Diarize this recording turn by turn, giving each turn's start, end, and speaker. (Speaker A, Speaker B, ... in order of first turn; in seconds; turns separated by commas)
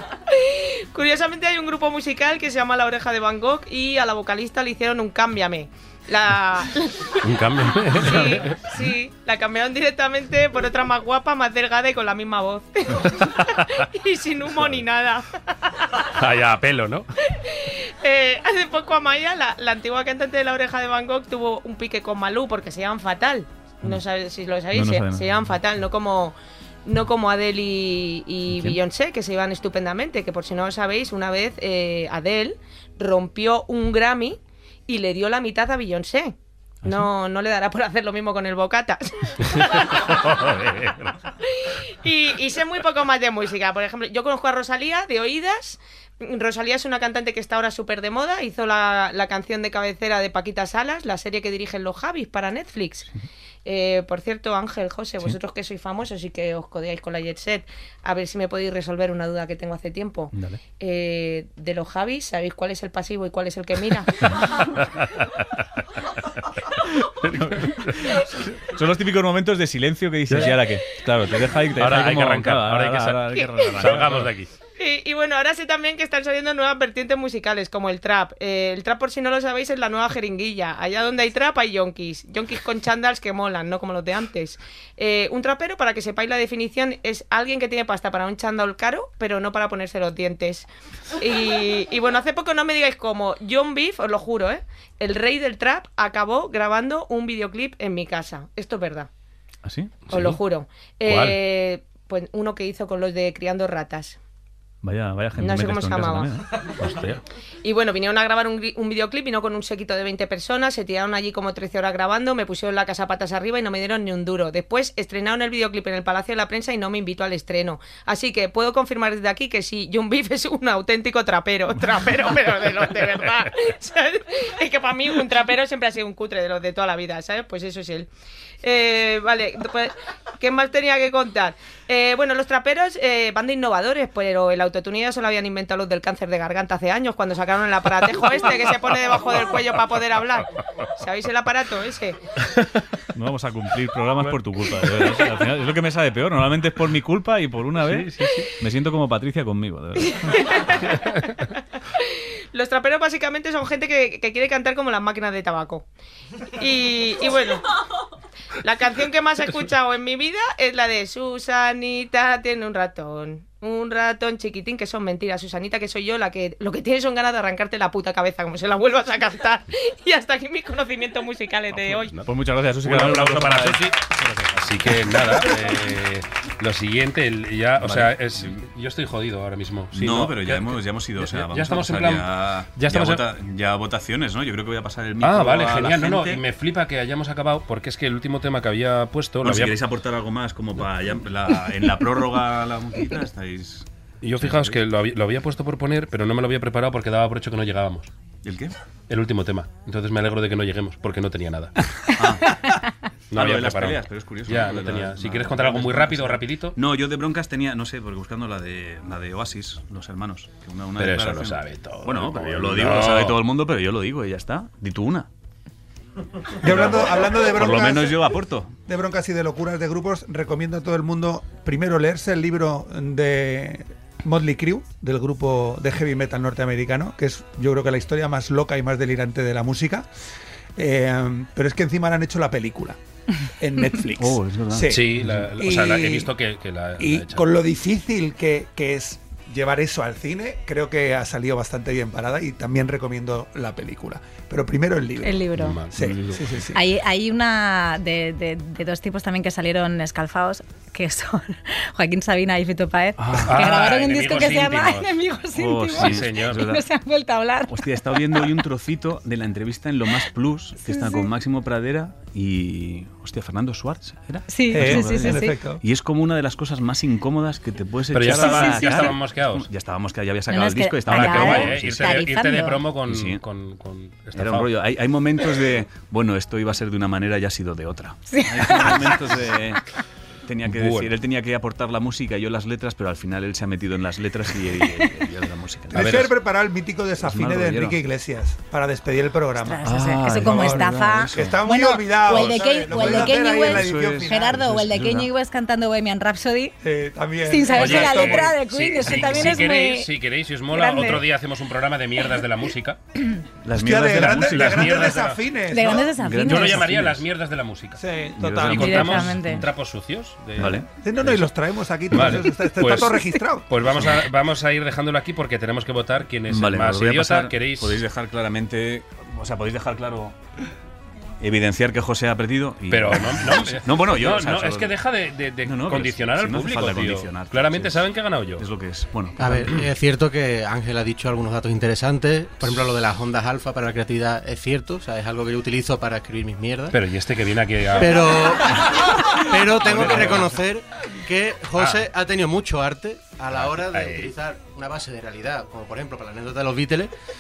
Speaker A: 0.3-7.2, Speaker B: 7.2-8.6, Speaker A: 8.0-15.9, Speaker C: 8.1-8.4, Speaker B: 13.2-13.8, Speaker B: 16.1-17.1, Speaker A: 17.3-40.0, Speaker C: 24.7-25.3, Speaker C: 28.5-28.8, Speaker C: 36.8-37.1, Speaker B: 39.6-41.1, Speaker A: 41.4-53.1, Speaker A: 53.6-64.3, Speaker C: 60.4-60.6, Speaker B: 64.5-65.4, Speaker B: 67.2-68.2, Speaker C: 67.3-74.3, Speaker B: 70.3-70.6, Speaker B: 71.8-74.5, Speaker A: 73.4-73.6, Speaker A: 74.8-90.7, Speaker A: 91.2-99.1, Speaker C: 99.6-100.4, Speaker A: 100.1-104.2, Speaker B: 101.1-101.4, Speaker C: 104.8-107.0, Speaker A: 105.4-106.3, Speaker B: 106.8-107.2, Speaker A: 107.6-128.1, Speaker A: 128.6-142.2, Speaker C: 143.1-150.3, Speaker B: 147.8-148.5, Speaker A: 150.1-151.0, Speaker B: 151.0-151.3, Speaker A: 151.9-155.9, Speaker A: 156.6-157.6, Speaker A: 158.6-172.2, Speaker B: 171.8-172.3, Speaker C: 172.3-174.9, Speaker B: 172.8-174.0, Speaker B: 174.6-183.2, Speaker C: 177.8-178.6, Speaker C: 179.9-186.4, Speaker B: 185.2-189.8, Speaker C: 189.4-194.8, Speaker B: 194.2-198.1, Speaker C: 198.4-198.8, Speaker B: 199.1-201.7, Speaker C: 202.1-202.7, Speaker B: 203.3-206.8, Speaker C: 203.3-215.3, Speaker B: 211.0-213.4, Speaker D: 216.6-218.2, Speaker C: 216.7-218.7, Speaker D: 218.9-230.1, Speaker D: 230.8-233.0, Speaker D: 233.6-236.3, Speaker C: 234.2-235.5, Speaker B: 234.9-237.5, Speaker D: 237.0-246.8, Speaker E: 245.2-245.8, Speaker B: 245.6-246.4, Speaker E: 246.7-258.6, Speaker C: 253.2-253.8, Speaker B: 253.4-255.2, Speaker C: 255.6-256.8, Speaker B: 255.9-256.6, Speaker C: 257.7-272.3, Speaker E: 260.9-261.3, Speaker E: 264.5-265.6, Speaker D: 264.7-265.8, Speaker B: 268.1-269.7, Speaker E: 268.3-269.1, Speaker E: 270.5-272.8, Speaker B: 271.1-274.7, Speaker C: 273.1-273.4, Speaker C: 274.4-279.8, Speaker E: 278.3-279.2, Speaker C: 280.5-286.3, Speaker B: 280.7-281.1, Speaker D: 285.9-294.7, Speaker B: 285.9-286.3, Speaker C: 287.2-288.0, Speaker E: 289.6-296.8, Speaker C: 289.9-291.6, Speaker C: 292.3-295.3, Speaker D: 296.8-298.5, Speaker E: 297.4-300.1, Speaker B: 297.8-303.0, Speaker E: 300.7-301.2, Speaker C: 303.6-305.2, Speaker D: 303.8-306.1, Speaker B: 304.2-305.4, Speaker E: 305.7-306.9, Speaker C: 306.2-307.2, Speaker B: 306.4-308.0, Speaker D: 308.0-309.0, Speaker C: 308.4-309.7, Speaker B: 308.5-311.3, Speaker E: 308.8-309.6, Speaker C: 310.6-310.9, Speaker D: 311.0-313.7, Speaker B: 312.1-318.0, Speaker C: 312.1-312.4, Speaker C: 316.5-320.4, Speaker C: 321.4-325.0, Speaker B: 322.9-328.7, Speaker C: 325.6-329.8, Speaker F: 329.4-337.0, Speaker B: 336.9-338.6, Speaker F: 338.0-347.1, Speaker B: 339.8-340.6, Speaker B: 341.8-342.1, Speaker B: 343.7-344.3